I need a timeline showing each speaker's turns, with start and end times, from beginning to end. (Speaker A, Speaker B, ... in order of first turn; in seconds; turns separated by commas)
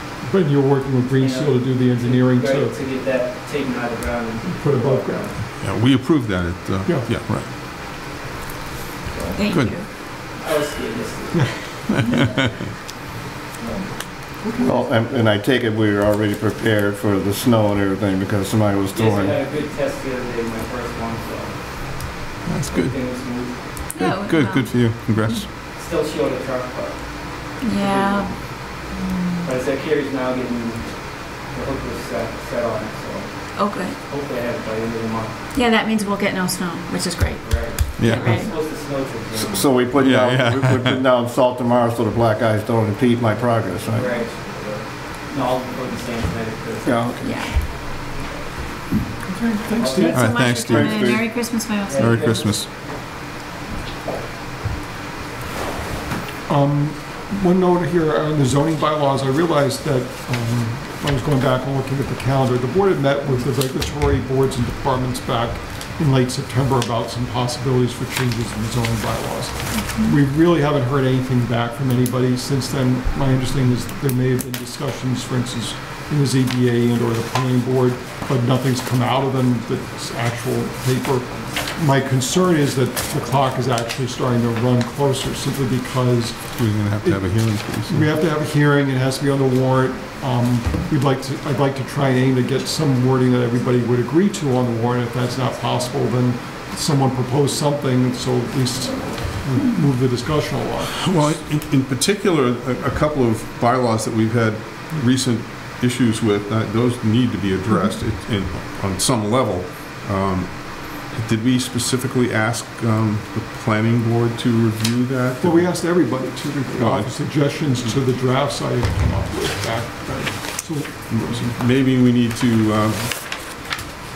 Speaker A: 0.2-2.7, Speaker B: 1.1-5.4, Speaker A: 4.5-5.2, Speaker C: 5.6-7.5, Speaker D: 9.3-9.8, Speaker C: 9.5-9.7, Speaker B: 10.3-11.6, Speaker A: 14.4-14.8, Speaker B: 14.6-14.8, Speaker E: 14.6-19.4, Speaker B: 18.9-21.6, Speaker C: 22.4-23.0, Speaker B: 22.7-23.6, Speaker D: 23.9-24.8, Speaker C: 23.9-25.5, Speaker B: 25.7-27.0, Speaker D: 27.6-28.3, Speaker B: 27.6-28.4, Speaker B: 29.4-30.9, Speaker B: 31.4-35.4, Speaker D: 33.5-34.0, Speaker D: 35.5-37.5, Speaker B: 37.4-39.7, Speaker C: 38.0-38.3, Speaker D: 38.1-38.5, Speaker E: 39.4-44.1, Speaker C: 39.8-41.0, Speaker B: 43.9-47.2, Speaker E: 46.8-47.4, Speaker D: 47.2-47.5, Speaker A: 49.2-50.3, Speaker B: 49.8-50.3, Speaker D: 50.0-52.1, Speaker C: 50.1-51.3, Speaker E: 50.5-51.2, Speaker B: 51.9-52.6, Speaker C: 52.0-52.7, Speaker A: 56.5-101.0, Speaker C: 86.6-88.0, Speaker C: 101.0-115.8, Speaker A: 115.4-121.5, Speaker C: 116.8-118.0, Speaker C: 121.1-123.1